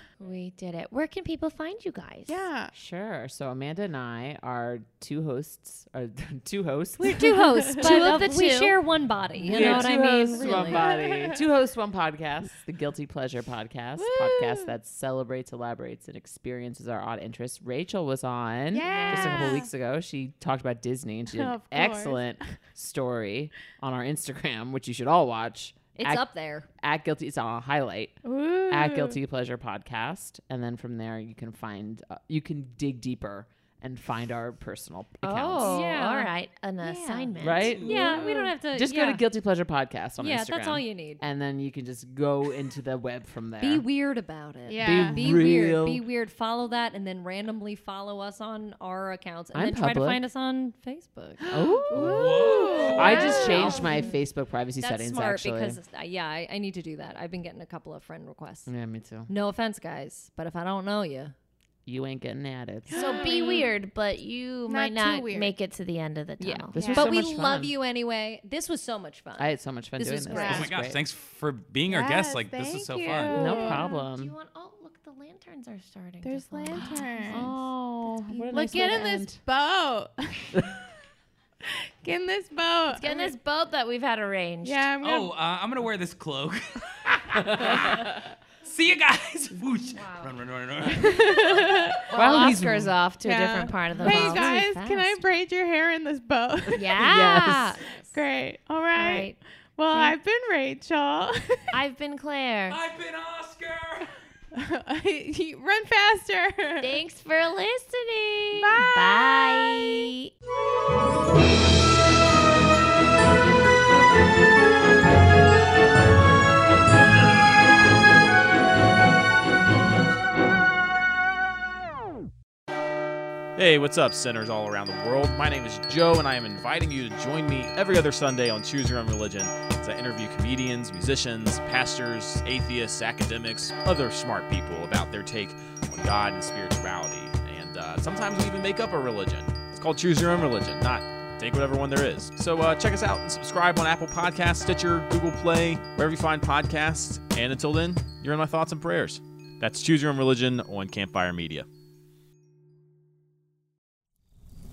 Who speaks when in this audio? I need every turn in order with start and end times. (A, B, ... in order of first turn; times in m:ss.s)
0:00.2-0:02.5 A
0:02.3-0:02.7 B
0:02.7-0:07.4 C
0:07.0-0:10.9 D
0:07.8-0:08.8 A
0:09.4-0:35.8 C
0:09.5-0:10.8 A
0:10.6-0:11.4 B
0:14.0-0:14.7 B
0:18.7-0:19.6 A
0:18.8-0:19.7 B
0:18.8-0:19.5 D
0:21.3-0:22.4 B
0:26.0-0:26.7 D
0:28.2-0:29.2 B
0:35.2-0:37.8 A
0:35.6-0:39.2 D
0:37.4-0:43.8 C
0:37.6-0:38.3 E
0:40.2-0:41.2 D
0:43.6-0:54.1 D
0:44.6-0:45.5 B
0:44.8-0:46.0 C
0:49.5-0:50.2 C
0:51.5-0:52.2 C
0:51.9-0:53.8 E
0:52.0-0:53.9 B
0:53.0-0:55.8 C
0:53.2-0:54.0 A
0:54.8-0:58.7 D
0:58.7-0:59.3 C
0:59.3-1:01.3 D
1:01.8-1:03.0 C
1:02.9-1:03.7 B
1:02.9-1:07.2 A
1:04.6-1:05.5 B
1:06.4-1:10.7 D
1:06.7-1:07.7 C
1:06.8-1:07.1 B
1:09.4-1:11.0 C
1:10.3-1:10.7 B
1:10.4-1:13.4 E
1:11.9-1:14.0 B
1:13.3-1:17.5 A
1:13.3-1:14.3 C
1:16.2-1:17.5 B
1:17.3-1:19.4 C
1:18.0-1:20.7 B
1:21.6-1:23.3 B
1:22.9-1:24.9 A
1:24.6-1:25.3 B
1:25.0-1:31.8 E
1:27.4-1:28.2 C
1:29.9-1:30.3 A
1:30.8-1:32.6 B
1:32.1-1:35.2 A
1:32.1-1:32.9 C
1:33.2-1:37.1 B
1:34.0-1:34.7 D
1:36.7-1:37.9 A
1:37.0-1:37.8 C
1:38.1-1:41.7 B
1:38.9-1:39.4 A
1:39.9-1:40.2 A
1:41.7-1:42.8 A
1:42.7-1:44.1 E
1:44.5-1:47.0 B
1:46.8-1:50.3 A
1:48.6-1:49.5 B
2:03.6-2:31.7 F